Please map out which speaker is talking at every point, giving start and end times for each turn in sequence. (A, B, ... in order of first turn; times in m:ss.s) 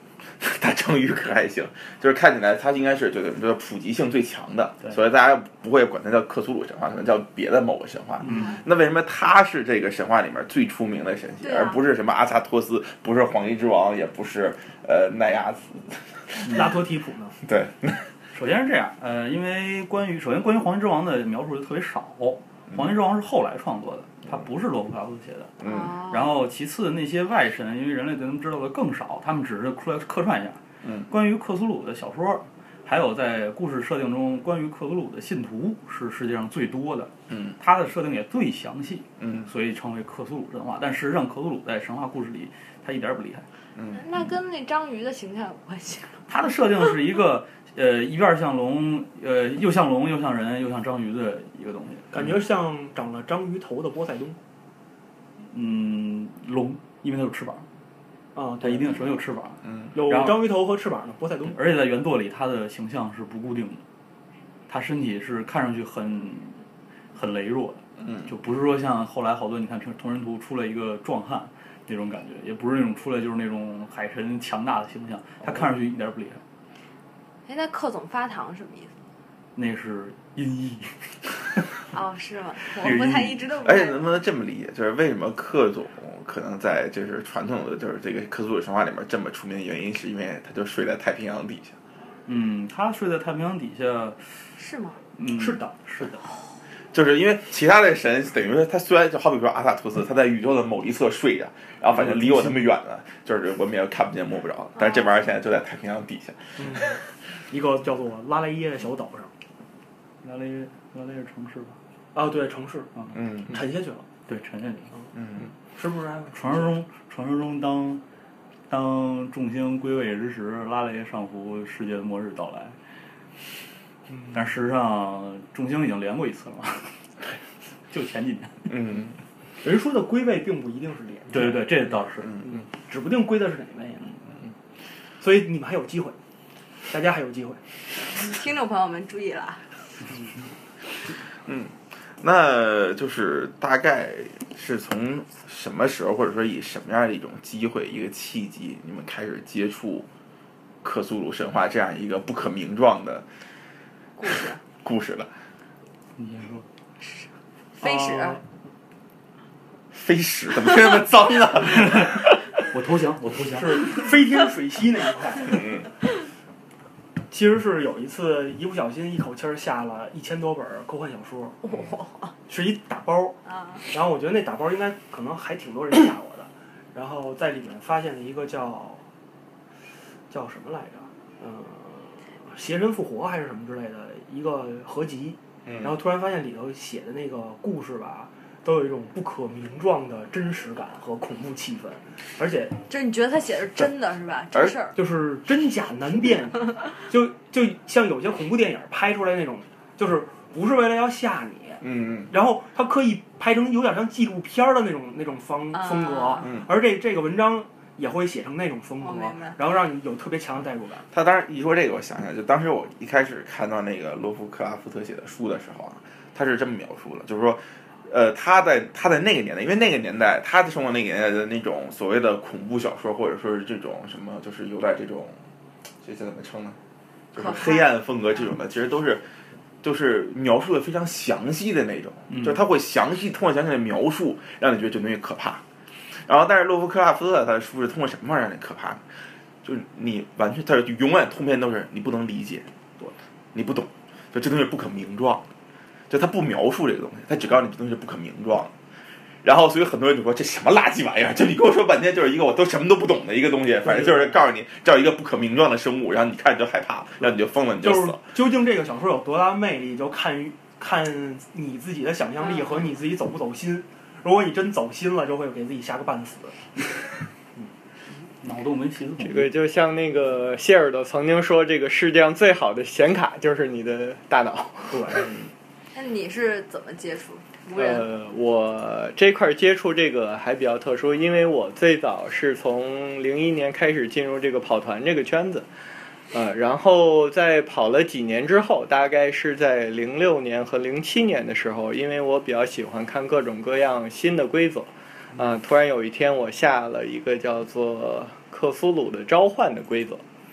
0:00.4-0:16.7 A
0:08.2-0:08.6 B
0:08.3-0:08.6 C
0:11.4-0:11.8 C
0:16.5-0:17.4 D
0:17.4-0:18.1 A
0:18.3-0:25.5 B
0:25.6-0:26.0 A
0:25.6-0:26.3 C
0:26.1-0:43.4 B
0:30.8-0:31.1 A
0:37.3-0:37.6 A
0:39.2-0:39.5 A
0:43.8-0:44.3 A
0:43.9-0:46.2 C
0:46.3-0:52.1 B
0:52.1-0:54.4 D
0:55.5-0:57.6 B
0:58.3-0:59.1 D
0:58.6-1:00.5 B
0:59.9-1:01.6 D
1:01.5-1:03.8 B
1:04.7-1:06.6 B
1:07.1-1:16.4 B
1:08.0-1:08.3 A
1:17.5-1:18.9 C
1:19.6-1:21.1 B
1:21.9-1:24.0 C
1:22.7-1:23.4 B
1:23.6-1:31.8 A
1:32.2-1:34.3 B
1:34.6-1:35.0 C
1:35.2-1:36.2 B
1:35.3-1:35.7 D
1:36.9-1:47.0 A
1:42.0-1:42.5 B
1:44.8-1:45.1 C
1:46.6-1:47.0 D
1:47.5-1:49.3 D
1:50.2-1:51.8 B
1:52.1-1:52.9 D
1:53.1-1:53.5 A
1:53.5-1:54.1 D
1:54.3-1:54.9 B
1:55.2-1:55.5 A
1:55.7-1:56.8 D
1:56.3-1:58.0 B
1:58.7-2:02.8 B
2:04.1-2:04.5 D
2:04.3-2:06.9 B
2:07.9-2:08.7 B
2:08.7-2:09.2 A
2:09.6-2:11.6 D
2:11.3-2:12.4 B
2:12.2-2:12.6 A
2:12.4-2:14.2 D
2:15.2-2:16.2 D
2:16.9-2:17.6 D
2:18.1-2:19.6 C
2:21.4-2:30.1 A
2:30.8-2:33.2 A
2:34.2-2:34.6 C
2:34.8-2:35.3 A
2:36.2-2:36.6 B
2:37.0-2:37.3 C
2:37.8-2:38.4 C
2:37.8-2:38.4 D
2:39.9-2:42.4 A
2:41.7-2:44.1 B
2:43.5-2:45.7 D
2:45.5-2:45.8 A
2:47.3-2:51.6 D
2:51.6-2:52.3 C
2:52.5-2:59.0 D
2:53.4-2:53.8 C
3:00.3-3:12.8 D
3:05.6-3:06.0 A
3:12.9-3:15.0 C
3:15.0-3:31.0 D
3:21.8-3:22.3 A
3:25.7-3:26.5 C
3:26.4-3:26.7 A
3:29.0-3:29.6 C
3:31.1-3:45.4 A
3:46.0-3:46.8 A
3:47.3-3:49.2 A
3:47.3-3:47.9 C
3:49.8-3:55.6 A
3:52.3-3:52.6 B
3:56.2-3:59.0 A
3:59.6-4:02.7 A
4:03.5-4:05.4 A
4:06.1-4:08.7 A
4:09.4-4:18.3 A
4:13.8-4:14.4 D
4:17.8-4:26.6 D
4:28.4-4:29.5 B
4:29.2-4:35.2 E
4:34.9-4:35.3 D
4:35.9-4:38.1 C
4:37.7-4:45.6 E
4:46.3-5:00.2 E